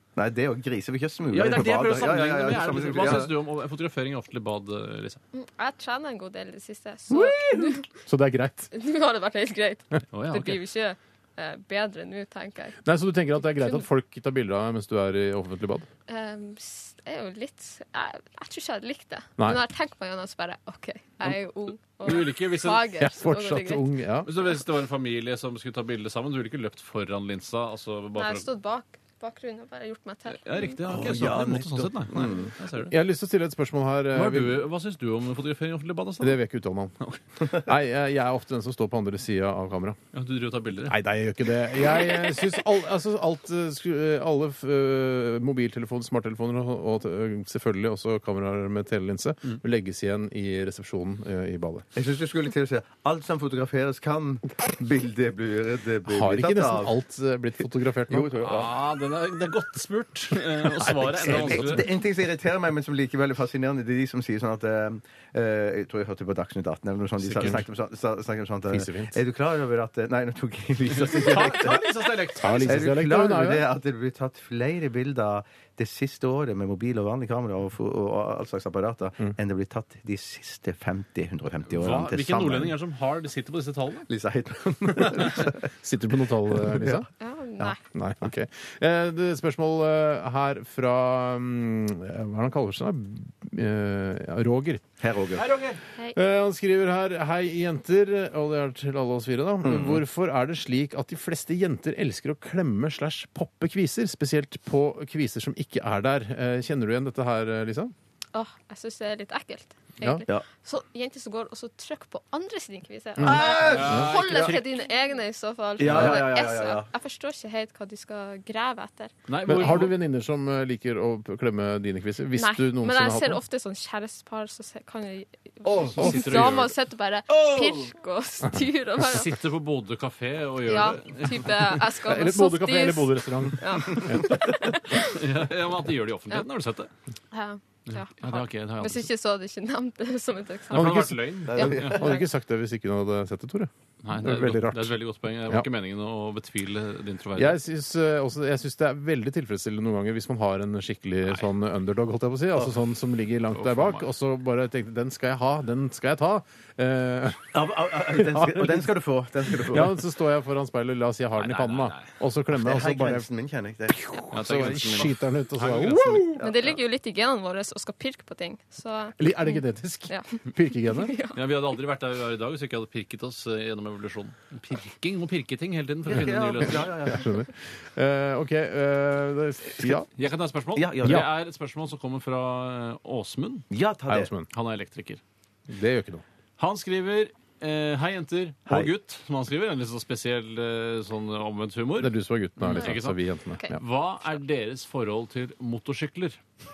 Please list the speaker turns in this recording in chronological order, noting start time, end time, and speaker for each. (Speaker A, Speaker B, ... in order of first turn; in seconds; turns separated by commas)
Speaker A: 0.2-3.3, Speaker B: 1.3-5.2, Speaker C: 5.3-7.9, Speaker D: 7.1-8.7, Speaker C: 8.7-12.8, Speaker B: 10.1-10.6, Speaker D: 12.8-15.9, Speaker C: 13.6-13.8, Speaker C: 16.1-23.9, Speaker B: 22.0-22.9, Speaker D: 23.0-24.3, Speaker B: 24.2-28.5, Speaker C: 28.1-30.8, Speaker B: 30.3-33.0, Speaker A: 30.9-32.5, Speaker D: 32.9-34.6, Speaker B: 34.1-36.4, Speaker D: 36.2-40.0, Speaker B: 40.1-41.0, Speaker D: 40.9-51.9, Speaker A: 52.0-56.9, Speaker D: 56.1-58.3, Speaker A: 58.1-58.7, Speaker B: 58.4-61.9, Speaker D: 60.8-61.8, Speaker A: 61.3-71.9, Speaker D: 67.2-67.6, Speaker D: 68.7-69.2, Speaker B: 70.9-72.9, Speaker D: 72.4-73.7, Speaker A: 72.7-82.8, Speaker B: 81.7-84.1, Speaker A: 84.1-85.7, Speaker D: 85.7-87.1, Speaker A: 86.7-87.0, Speaker C: 87.2-87.8, Speaker D: 87.7-94.8, Speaker A: 95.0-95.5, Speaker B: 95.4-95.8, Speaker D: 96.1-107.9, Speaker A: 99.6-100.0, Speaker C: 108.3-119.1, Speaker D: 113.2-114.1, Speaker A: 113.2-114.5, Speaker B: 113.3-114.7, Speaker A: 115.8-116.9, Speaker B: 115.9-116.2, Speaker B: 119.3-120.0, Speaker D: 119.5-123.4, Speaker C: 122.3-129.4, Speaker B: 125.7-126.7, Speaker D: 126.0-126.5, Speaker B: 127.3-127.9, Speaker B: 129.0-131.8, Speaker C: 130.6-135.2, Speaker D: 132.0-134.4, Speaker B: 135.0-136.9, Speaker C: 137.3-142.3, Speaker B: 137.9-139.1, Speaker B: 140.7-142.1, Speaker D: 140.7-145.7, Speaker A: 141.5-142.1, Speaker B: 144.0-147.6, Speaker D: 147.4-158.9, Speaker B: 153.5-154.1, Speaker A: 157.5-160.0, Speaker D: 159.5-163.3, Speaker B: 161.4-162.1, Speaker A: 162.5-164.0, Speaker D: 163.9-166.4, Speaker B: 164.3-166.4, Speaker C: 166.4-171.4, Speaker A: 166.4-166.7, Speaker D: 169.2-171.1, Speaker B: 171.3-177.0, Speaker A: 176.1-177.3, Speaker D: 176.7-180.1, Speaker B: 180.2-183.7, Speaker A: 180.8-181.3, Speaker D: 181.0-181.3, Speaker A: 183.7-184.3, Speaker D: 184.1-184.5, Speaker B: 184.5-185.2, Speaker D: 185.7-186.2, Speaker B: 186.6-196.4, Speaker D: 192.0-193.7